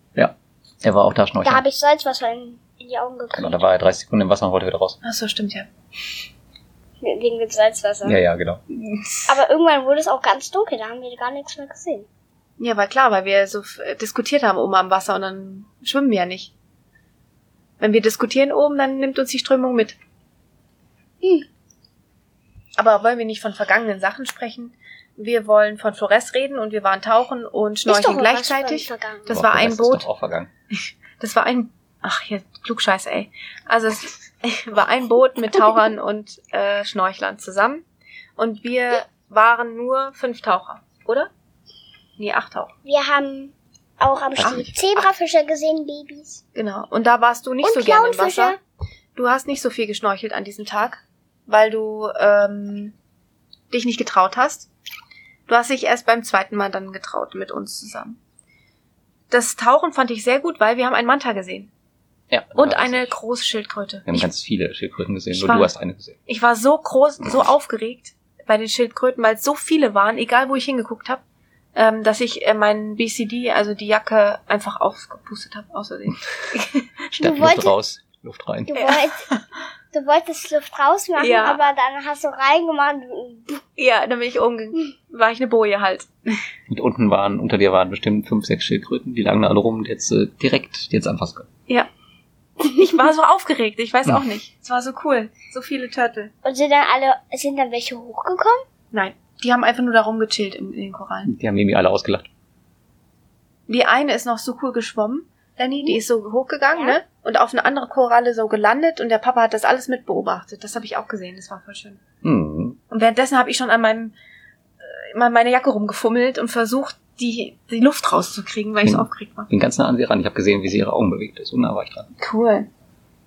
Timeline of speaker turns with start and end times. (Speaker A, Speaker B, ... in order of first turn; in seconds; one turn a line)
Speaker A: 0.1-1.6
Speaker B: 1.4-3.6
Speaker A: 3.3-5.0
Speaker C: 5.0-5.7
Speaker B: 7.0-8.2
Speaker A: 8.0-8.6
Speaker C: 8.7-9.3
Speaker B: 9.3-12.1
Speaker C: 12.6-16.5
Speaker C: 17.8-20.0
Speaker B: 21.2-21.5
Speaker C: 22.8-30.1
Speaker B: 27.9-29.3
Speaker A: 29.3-30.5
Speaker C: 30.7-37.8
Speaker C: 38.4-41.3
Speaker C: 42.2-42.7
Speaker B: 42.8-46.4
Speaker A: 44.4-44.7
Speaker C: 46.5-48.6
Speaker B: 47.6-48.6
Speaker C: 49.1-52.9
Speaker C: 53.7-54.7
Speaker C: 55.5-58.2
Speaker C: 59.3-61.7
Speaker A: 62.3-63.1
Speaker C: 62.5-64.2
Speaker A: 64.0-66.2
Speaker C: 65.3-65.7
Speaker C: 66.2-71.2
Speaker C: 71.8-76.9
Speaker B: 77.2-77.7
Speaker A: 77.2-78.8
Speaker B: 78.7-79.2
Speaker C: 78.8-79.3
Speaker B: 79.9-83.6
Speaker C: 81.2-81.6
Speaker C: 83.8-86.1
Speaker A: 86.7-91.5
Speaker C: 92.6-96.3
Speaker B: 96.4-98.6
Speaker C: 98.9-101.3
Speaker A: 101.2-102.3
Speaker C: 103.7-112.0
Speaker A: 112.2-112.8
Speaker C: 112.9-114.1
Speaker C: 114.8-119.5
Speaker A: 118.8-122.1
Speaker C: 122.2-122.7